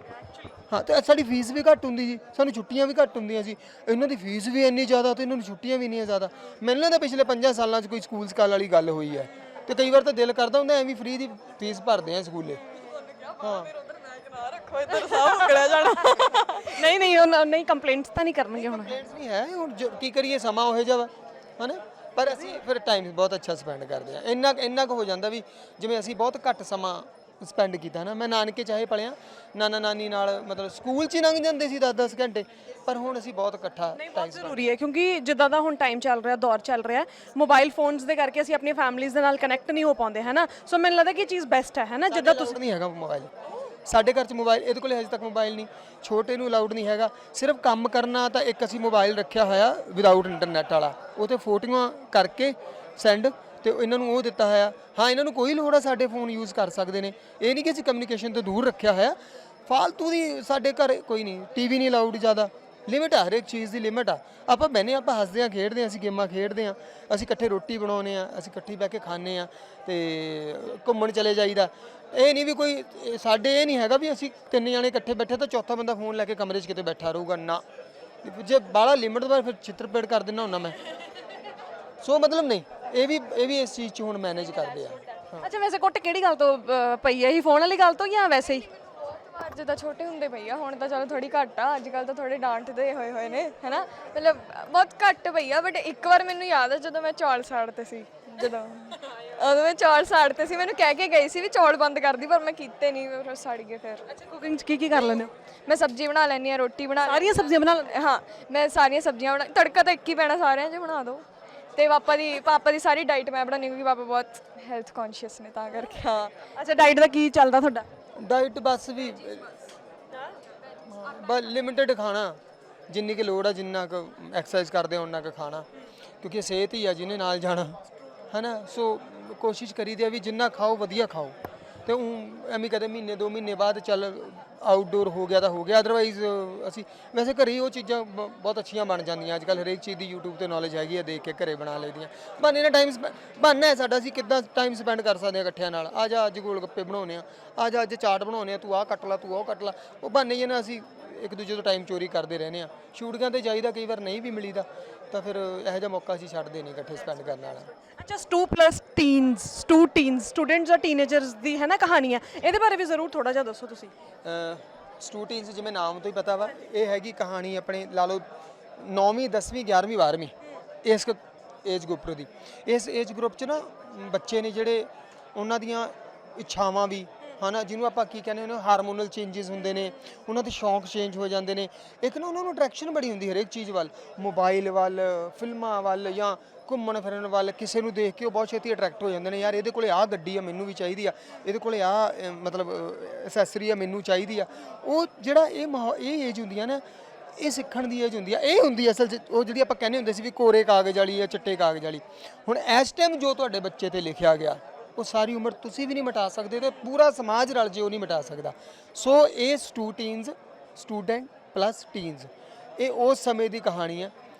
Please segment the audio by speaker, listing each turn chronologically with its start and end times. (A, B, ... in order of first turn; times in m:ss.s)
0:00.7-0:12.6 A
0:12.8-0:16.8 B
0:13.4-0:13.7 A
0:15.1-0:19.0 C
0:18.6-0:34.6 A
0:34.0-0:42.6 C
0:42.1-0:43.3 A
0:43.9-1:17.6 A
1:18.2-1:20.8 A
1:22.0-1:25.4 A
1:25.4-1:28.7 C
1:28.9-1:44.1 B
1:44.1-1:45.3 C
1:45.6-1:56.4 B
1:47.0-1:47.9 C
1:56.6-1:57.9 C
1:58.2-1:59.5 A
2:00.8-2:05.6 A
2:06.2-2:37.7 A
2:38.0-2:43.9 C
2:44.2-2:48.2 A
2:48.8-3:16.8 A
3:17.4-3:34.1 A